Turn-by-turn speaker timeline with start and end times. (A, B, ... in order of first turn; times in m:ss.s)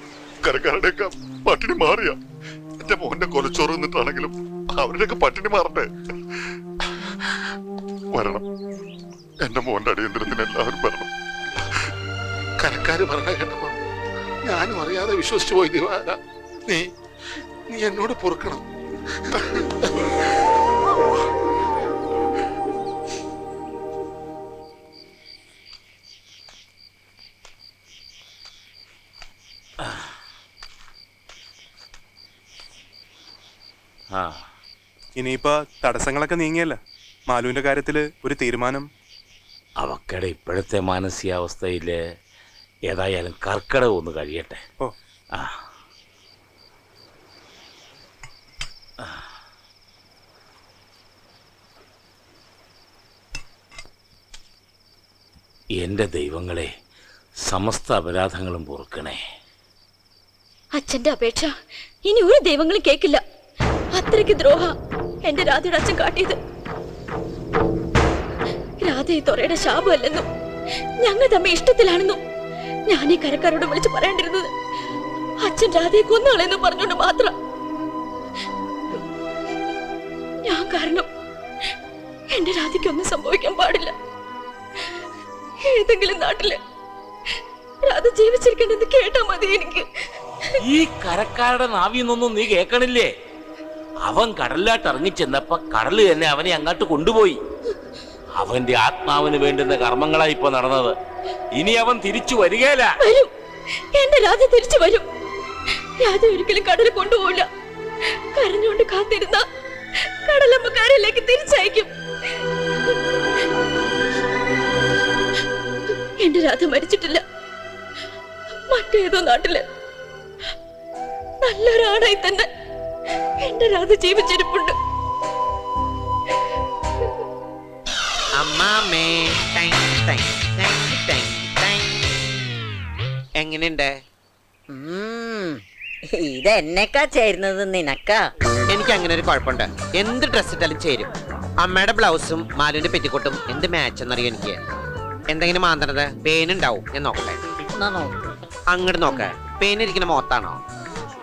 0:00.5-0:02.2 A
0:02.8-0:05.8 A
0:08.1-0:08.4 A
0:09.4-0:11.1 A
0:12.6-0:13.7 A
0:14.4-0:16.9 A
0:17.7-0:18.6 A
0:34.1-0:34.4 B
0:35.2-0:38.9 C
0:39.8-0:42.0 B
0:42.9-0:44.6 B
0:55.8-0:56.7 B
0:57.4-0:59.2 B
1:00.8-1:03.2 D
1:03.9-1:04.7 D
1:05.2-1:06.4 D
1:08.8-1:10.3 D
1:11.0-1:12.2 D
1:12.9-1:14.5 D
1:15.4-1:17.3 D
1:20.4-1:21.0 D
1:22.3-1:23.9 D
1:25.7-1:26.6 D
1:27.8-1:29.8 D
1:30.6-1:33.1 B
1:34.0-1:37.4 B
1:38.3-1:41.0 B
1:41.5-1:43.0 B
1:43.0-1:43.3 D
1:43.9-1:45.0 D
1:46.0-1:47.5 D
1:48.4-1:49.4 D
1:50.3-1:51.9 D
1:56.2-1:57.2 D
1:58.7-1:59.6 D
2:01.4-2:02.5 D
2:03.4-2:04.7 D
2:08.4-2:12.1 E
2:13.4-2:13.9 E
2:14.7-2:15.6 F
2:16.1-2:18.2 F
2:18.7-2:21.1 E
2:21.6-2:24.6 E
2:25.3-2:27.4 E
2:27.8-2:28.1 F
2:28.7-2:30.6 E